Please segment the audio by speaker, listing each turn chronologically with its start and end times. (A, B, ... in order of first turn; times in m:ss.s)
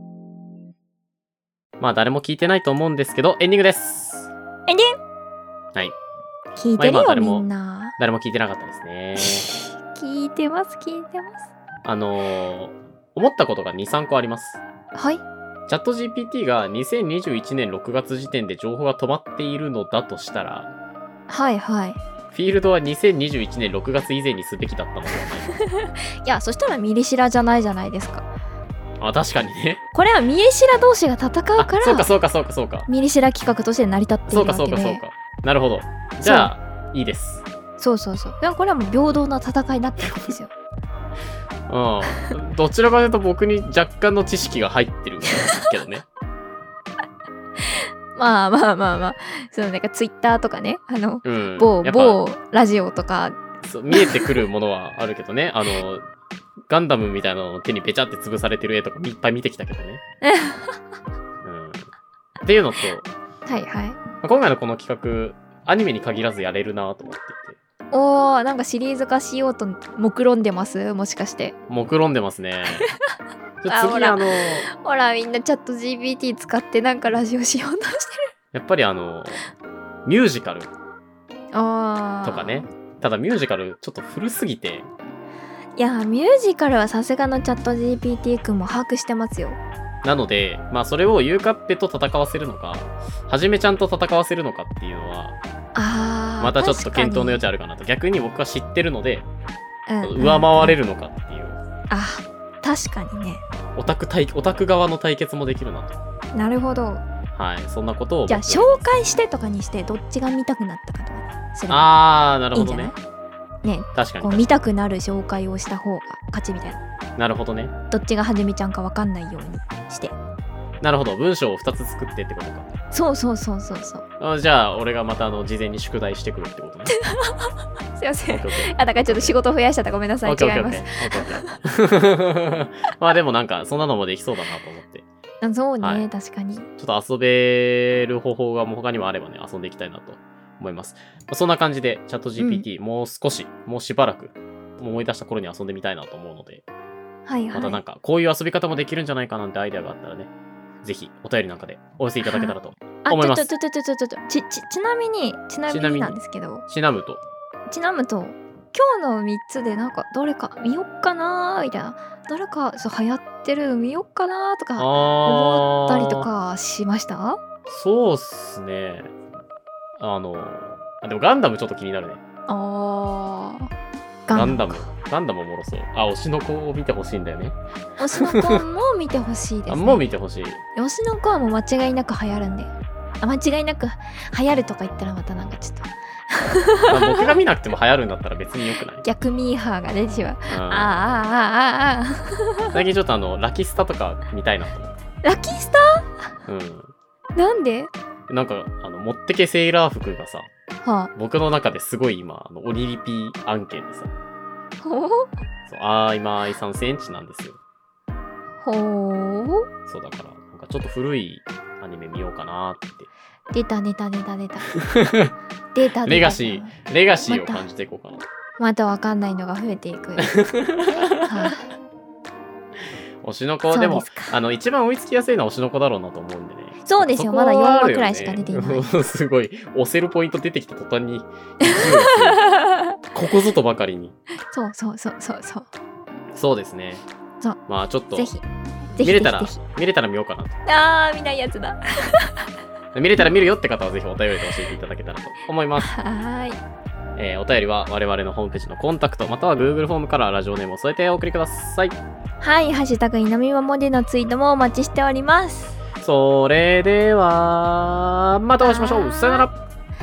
0:01.8-0:04.3 A
0:04.7-0:05.0 B
0:06.6-0:08.0 B
0:06.8-0:07.4 A
0:08.0-0:09.5 A
0:09.2-0:11.5 B
0:11.8-0:14.6 A
0:14.9-0:15.2 B
0:15.7-0:20.7 A
0:21.3-0:22.0 B
0:22.3-0:25.6 A
0:25.5-0:28.3 B
0:29.0-0:29.8 A
0:29.9-0:32.1 B
0:31.6-0:32.9 A
0:32.9-0:35.0 B
0:34.3-0:37.5 A
0:36.2-0:36.5 B
0:37.8-0:40.5 B
0:41.7-0:46.1 A
0:47.7-0:53.4 B
0:51.2-0:52.2 A
0:53.6-0:56.0 A
0:53.9-0:54.3 B
0:56.7-1:00.0 A
1:00.2-1:00.8 B
1:01.4-1:01.9 A
1:02.4-1:03.1 A
1:03.5-1:04.0 B
1:04.2-1:07.6 A
1:07.9-1:11.6 B
1:11.7-1:12.9 A
1:13.6-1:14.7 A
1:13.7-1:18.3 B
1:18.5-1:19.4 A
1:20.0-1:20.7 A
1:21.5-1:22.7 B
1:22.2-1:24.9 A
1:25.8-1:29.6 B
1:30.0-1:35.4 A
1:35.8-1:37.4 B
1:36.4-1:39.3 A
1:39.9-1:40.8 B
1:40.0-1:41.6 A
1:41.9-1:43.4 B
1:43.8-1:46.0 A
1:46.4-1:47.0 B
1:47.4-1:48.8 A
1:48.3-1:53.0 B
1:51.7-1:52.9 A
1:53.6-1:56.8 B
1:54.0-1:54.5 A
1:57.2-1:57.7 A
1:57.9-2:00.1 B
2:00.8-2:02.7 A
2:02.9-2:04.0 B
2:04.2-2:07.0 A
2:07.0-2:11.6 B
2:08.3-2:09.4 A
2:10.3-2:15.1 A
2:15.4-2:16.7 B
2:15.8-2:16.1 A
2:16.8-2:26.6 A
2:22.4-2:22.7 B
2:27.3-2:27.8 B
2:27.5-2:30.3 A
2:30.8-2:33.5 A
2:32.2-2:36.6 B
2:35.7-2:36.2 A
2:36.7-2:37.2 A
2:37.7-2:47.4 B
2:44.8-2:46.3 A
2:47.7-2:49.1 A
2:50.0-2:52.2 A
2:52.5-2:53.7 B
2:54.3-2:54.9 B
2:54.3-2:57.6 A
2:58.0-3:00.0 B
2:58.1-2:58.6 A
2:59.7-3:00.6 A
3:00.8-3:07.3 B
3:06.9-3:09.0 A
3:09.0-3:12.8 B
3:10.5-3:11.0 A
3:12.7-3:15.0 A
3:15.2-3:16.1 B
3:16.5-3:16.9 A
3:17.4-3:17.9 B
3:18.3-3:20.5 A
3:20.8-3:21.1 B
3:21.2-3:24.1 A
3:24.8-3:25.3 B
3:25.7-3:27.6 A
3:28.6-3:29.7 B
3:29.9-3:33.1 A
3:33.5-3:34.7 B
3:34.7-3:35.3 A
3:35.7-3:36.8 B
3:36.0-3:38.2 A
3:37.3-3:37.6 B
3:38.6-3:40.4 B
3:40.2-3:41.6 A
3:41.2-3:41.7 B
3:43.2-3:52.4 A
3:43.7-3:44.3 B
3:46.8-3:48.9 B
3:51.6-3:53.0 B
3:53.1-3:54.2 A
3:54.5-3:55.7 B
3:56.3-3:57.0 A
3:57.7-3:58.3 A
3:58.2-3:58.4 B
3:59.0-3:59.6 B
3:59.0-4:00.6 A
4:00.7-4:02.4 B
4:02.9-4:05.9 A
4:05.8-4:06.6 B
4:07.2-4:12.0 A
4:12.4-4:15.8 B
4:16.0-4:19.6 A
4:18.6-4:19.5 B